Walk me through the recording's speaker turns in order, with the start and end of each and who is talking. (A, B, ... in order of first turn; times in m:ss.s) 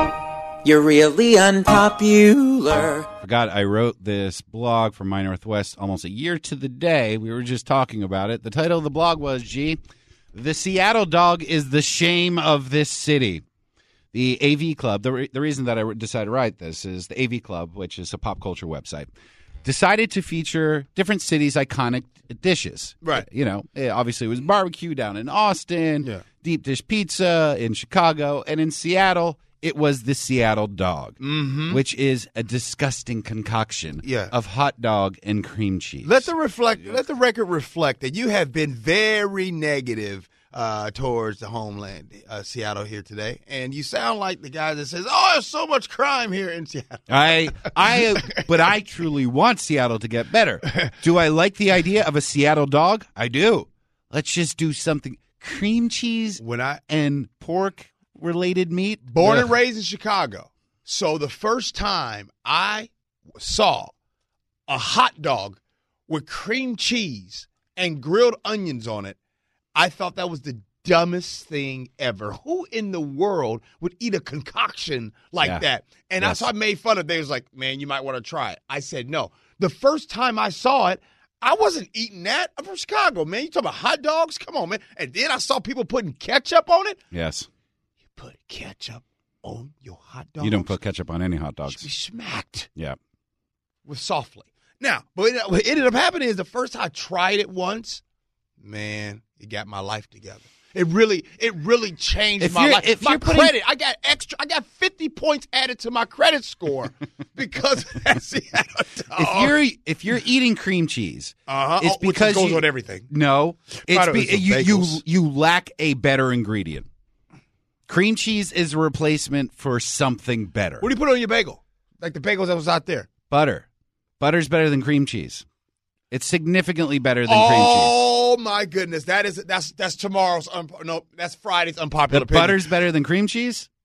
0:00.6-0:03.1 A
0:03.2-0:09.8 B
0:10.3-0:13.4 B
0:14.1-0:19.1 B
0:19.6-0:31.2 B
0:31.2-0:31.8 C
0:31.7-0:36.2 B
0:34.0-0:34.3 C
0:36.0-0:48.4 C
0:47.1-0:59.5 B
0:56.4-0:56.8 C
0:59.1-1:03.9 C
1:04.7-1:09.2 C
1:09.7-1:27.0 C
1:16.2-1:16.5 B
1:27.1-1:27.5 B
1:28.2-1:30.8 C
1:30.4-1:31.8 B
1:31.8-1:32.7 C
1:33.8-1:38.0 C
1:38.6-1:49.6 C
1:42.4-1:43.5 B
1:49.2-1:56.9 B
1:51.5-1:53.1 C
1:53.9-1:55.0 C
1:57.9-2:00.9 B
2:00.8-2:03.1 C
2:03.3-2:03.6 B
2:04.2-2:05.4 B
2:06.1-2:08.0 B
2:07.2-2:12.7 C
2:12.1-2:13.7 B